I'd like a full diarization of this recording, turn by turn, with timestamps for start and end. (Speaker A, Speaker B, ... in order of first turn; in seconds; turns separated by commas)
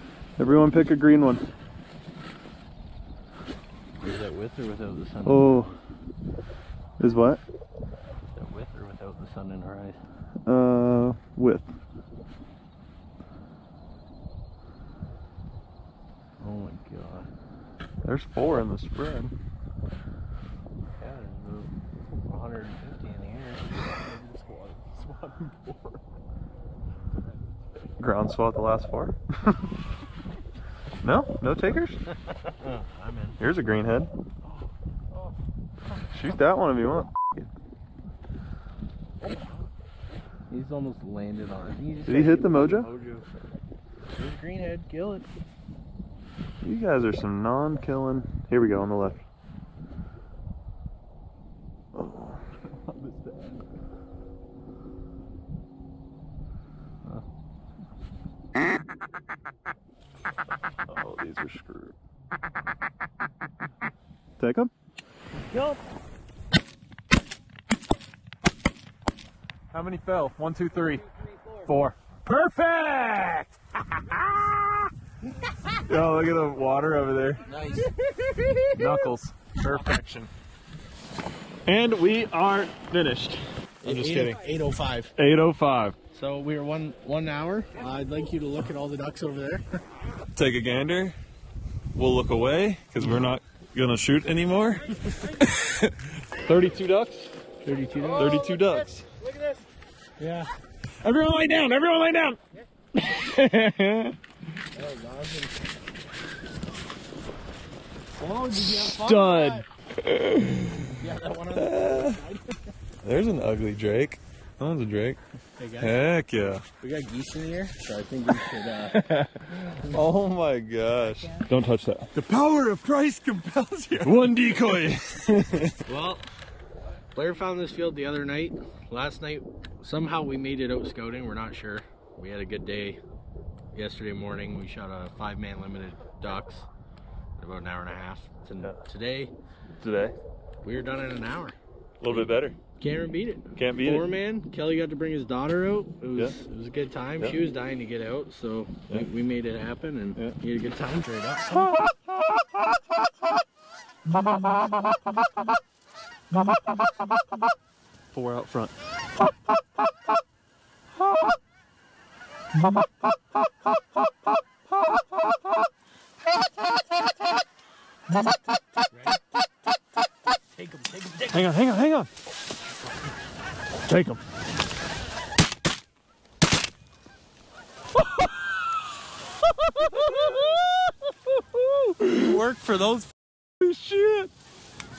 Speaker A: 0.4-1.5, Speaker B: 4.0-5.7, Speaker A: 5.2-5.7, Speaker A: 7.0-7.4, Speaker B: 8.3-10.0, Speaker A: 10.5-11.7, Speaker B: 16.4-17.3, Speaker A: 18.0-19.3, Speaker B: 20.9-21.7, Speaker B: 22.2-25.2, Speaker C: 25.4-25.8, Speaker A: 28.0-29.7, Speaker A: 31.0-32.0, Speaker B: 32.3-33.4, Speaker A: 33.4-34.1, Speaker A: 36.1-37.5, Speaker B: 39.2-39.6, Speaker B: 40.5-43.3, Speaker A: 42.1-42.9, Speaker B: 44.1-45.3, Speaker A: 46.6-49.2, Speaker A: 51.9-52.5, Speaker A: 60.9-61.9, Speaker A: 64.4-64.7, Speaker B: 65.5-65.8, Speaker A: 69.7-71.1, Speaker A: 71.7-74.9, Speaker A: 75.8-77.4, Speaker B: 77.5-77.9, Speaker A: 78.7-80.3, Speaker A: 81.7-84.4, Speaker B: 83.8-85.1, Speaker A: 85.2-86.0, Speaker B: 86.1-89.8, Speaker A: 90.3-91.2, Speaker A: 91.9-94.8, Speaker A: 95.4-97.3, Speaker B: 97.6-98.6, Speaker A: 98.1-99.1, Speaker B: 100.2-100.5, Speaker A: 101.0-102.4, Speaker A: 103.0-104.2, Speaker B: 104.7-105.6, Speaker B: 108.2-109.7, Speaker A: 108.5-111.0, Speaker B: 111.0-112.7, Speaker A: 111.5-112.2, Speaker A: 113.0-115.2, Speaker B: 115.6-116.2, Speaker A: 115.8-116.6, Speaker B: 116.8-119.9, Speaker A: 119.0-122.2, Speaker C: 122.2-124.0, Speaker A: 124.0-125.8, Speaker B: 125.9-126.2, Speaker B: 127.1-133.0, Speaker B: 133.7-136.7, Speaker B: 137.4-139.3, Speaker A: 139.8-140.2, Speaker B: 140.6-141.6, Speaker A: 142.0-142.6, Speaker B: 142.1-151.7, Speaker A: 143.6-144.1, Speaker A: 151.5-152.4, Speaker A: 158.1-158.7, Speaker B: 168.9-169.2, Speaker B: 170.6-171.4, Speaker A: 171.3-172.1, Speaker A: 173.8-174.2, Speaker A: 179.6-182.4, Speaker B: 182.2-183.1, Speaker A: 183.6-184.3